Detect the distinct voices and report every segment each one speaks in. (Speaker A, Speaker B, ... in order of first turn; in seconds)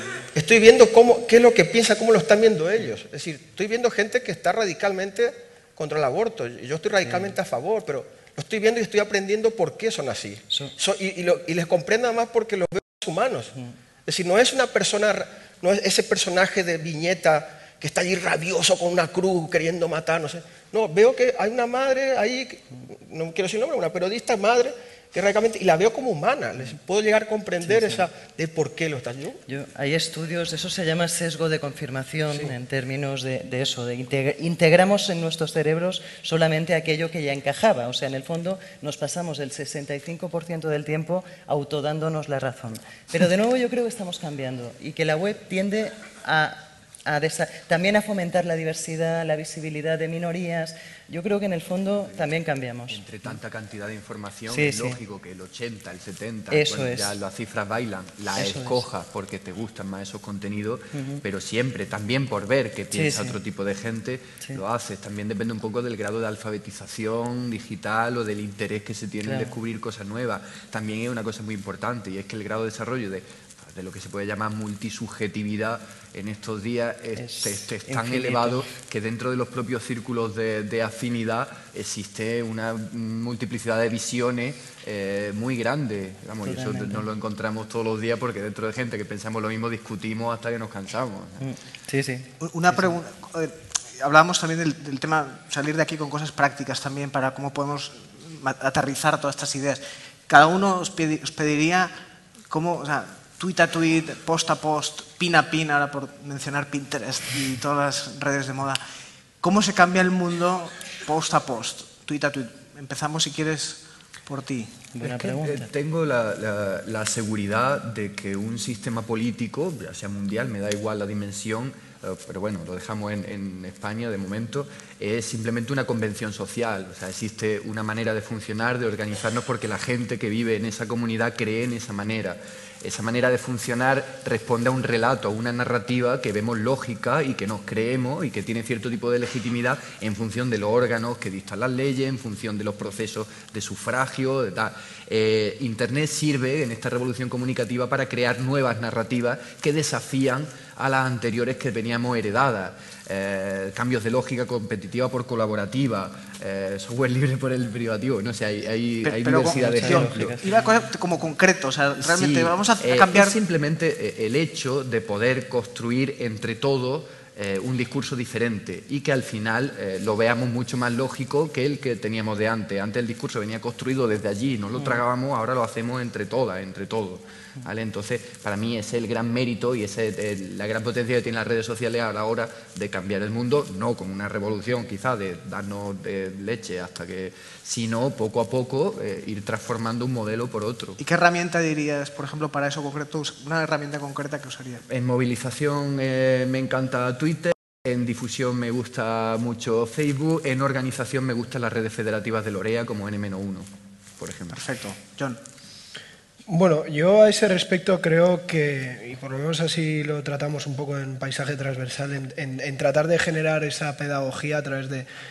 Speaker A: 0.3-13.6, 14.1-29.4
Speaker B: 27.6-28.0, 29.5-53.4, 54.5-55.0, 56.5-57.1, 58.4-58.8, 60.9-61.2, 62.9-63.4, 69.2-69.5, 77.2-78.7, 86.4-87.1, 91.4-92.3, 114.9-115.7, 159.6-160.5
Speaker C: 52.9-91.5, 115.0-160.4, 162.0-191.0, 194.9-203.7, 204.2-204.7
Speaker D: 92.4-101.9, 102.5-108.8, 109.4-114.9, 159.0-163.4, 191.0-194.8, 204.5-205.4
Speaker E: 206.5-215.1